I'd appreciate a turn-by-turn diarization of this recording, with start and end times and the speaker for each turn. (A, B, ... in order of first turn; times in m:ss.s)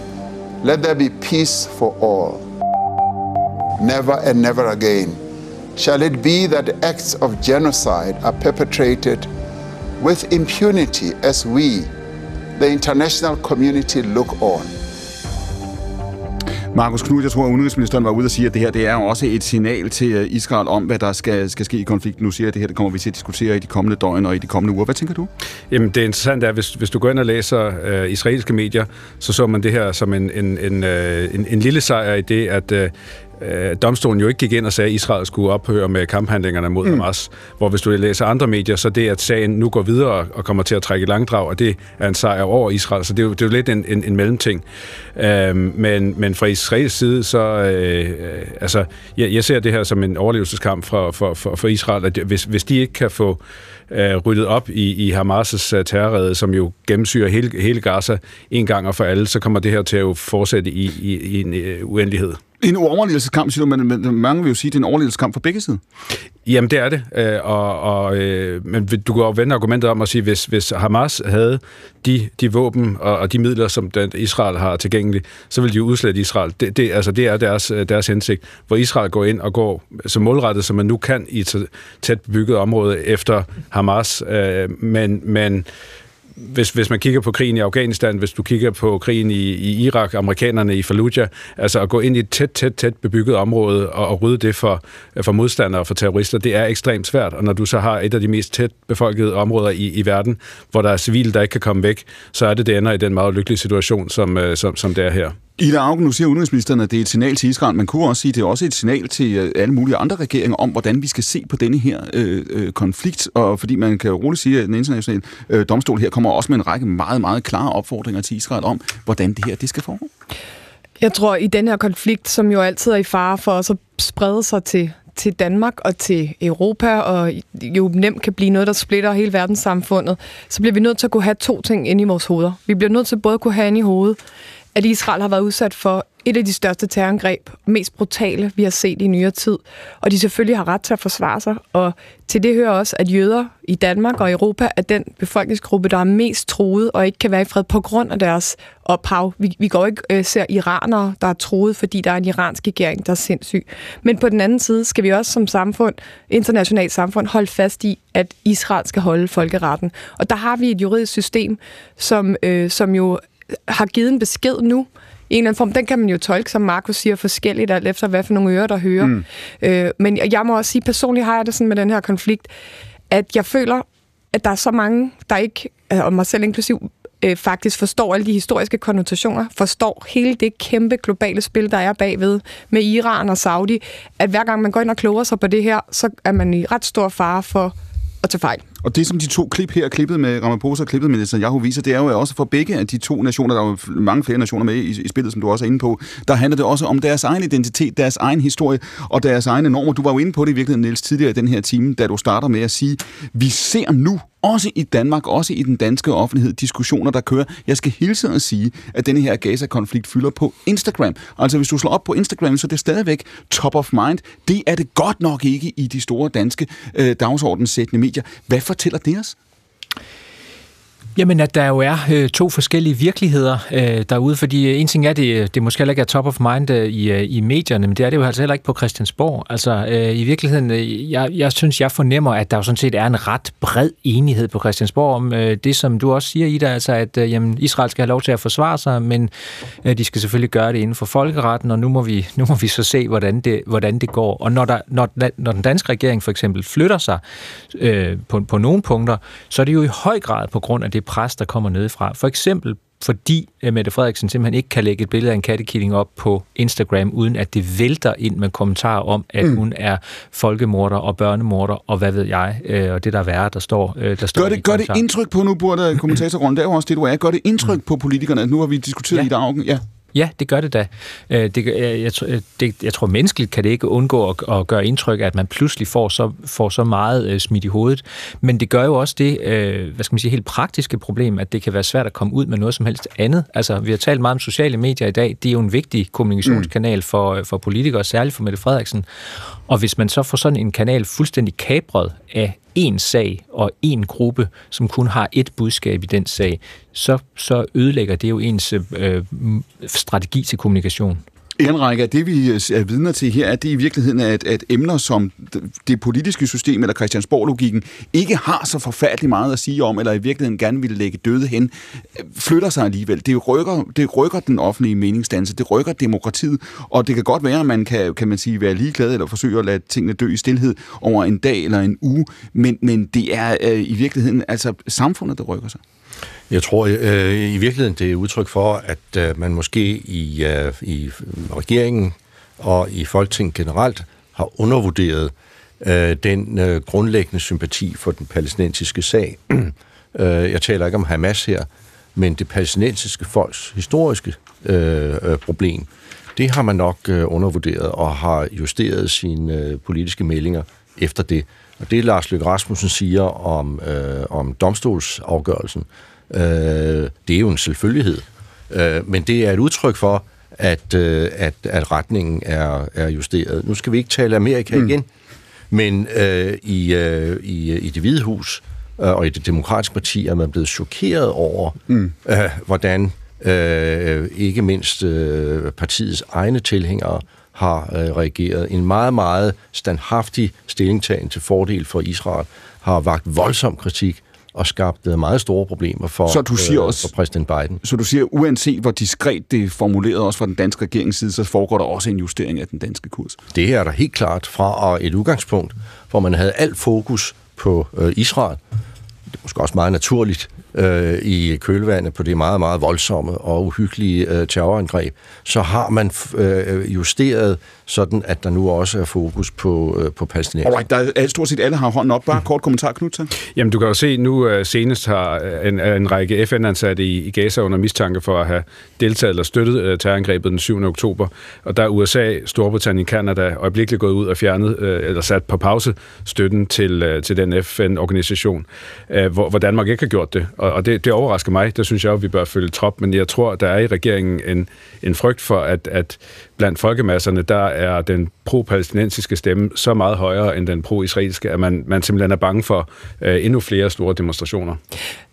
0:00.6-0:02.4 A
0:03.8-0:05.2 A
0:05.8-0:09.3 A
0:10.0-0:11.9 A
0:12.6-0:14.7 A
0:16.7-0:25.3 B
0:25.7-0:44.6 C
0:45.2-1:02.4 C
1:02.6-1:05.8 B
1:06.4-1:25.6 C
1:26.4-1:45.4 C
1:45.6-2:00.1 B
2:01.0-2:14.2 D
2:14.7-2:52.5 D
2:53.1-3:08.6 D
3:08.8-3:39.3 B
3:41.2-3:59.3 E
3:59.8-4:07.2 E
4:07.7-4:25.0 E
4:24.3-4:29.8 B
4:30.1-4:49.0 E
4:49.7-5:01.2 E
5:01.6-5:25.8 B
5:26.5-6:05.1 F
6:05.7-6:27.8 F
6:26.3-6:27.1 B
6:27.8-6:33.4 B
6:33.5-6:38.6 F
6:39.4-6:50.7 F
6:50.6-6:53.3 B
6:53.5-7:24.8 C